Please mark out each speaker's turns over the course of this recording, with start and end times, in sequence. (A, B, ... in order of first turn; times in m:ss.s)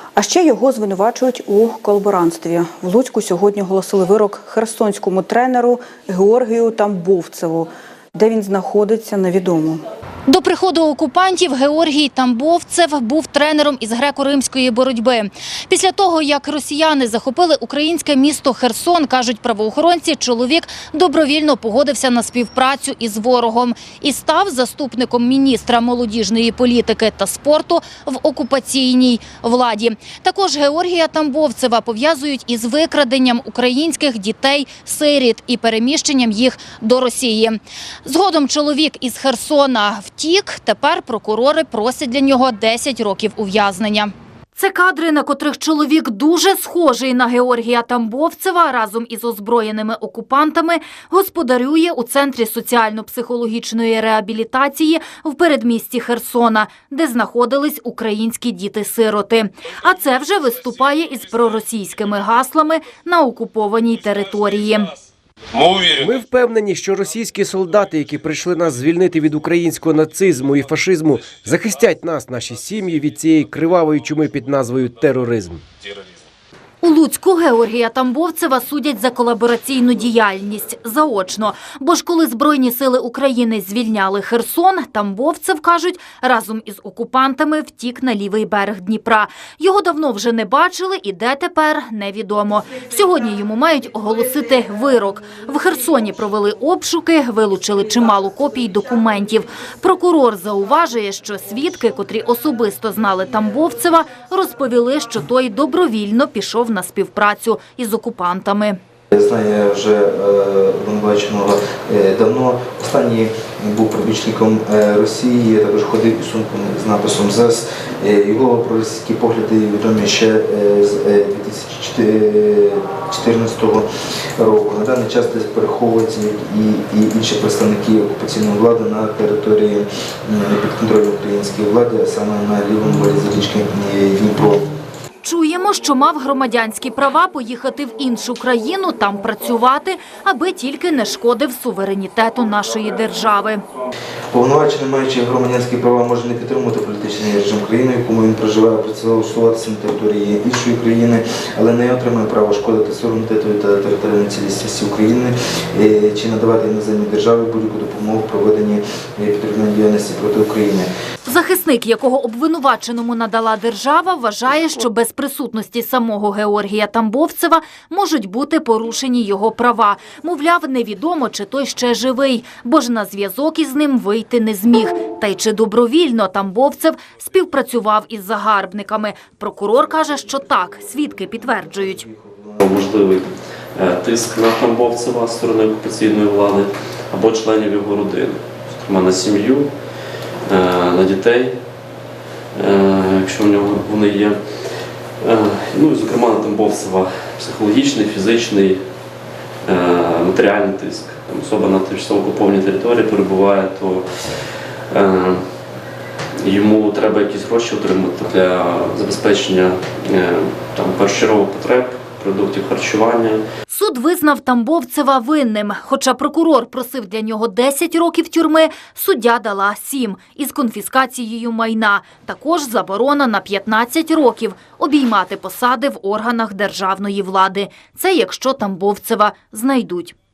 0:00.2-0:09.8 A
0:10.3-1:04.9 B
1:05.8-1:15.6 C
1:16.8-1:48.8 B
1:49.1-2:03.9 D
2:04.4-2:14.7 D
2:15.2-2:23.6 B
2:24.3-2:40.9 D
2:41.2-3:02.0 B
3:01.3-3:02.6 D
3:02.6-3:09.7 E
3:10.5-3:11.6 E
3:12.6-3:14.4 E
3:15.2-3:18.8 E
3:19.7-3:24.1 E
3:24.9-3:25.4 E
3:26.4-3:33.4 E
3:33.7-3:50.2 B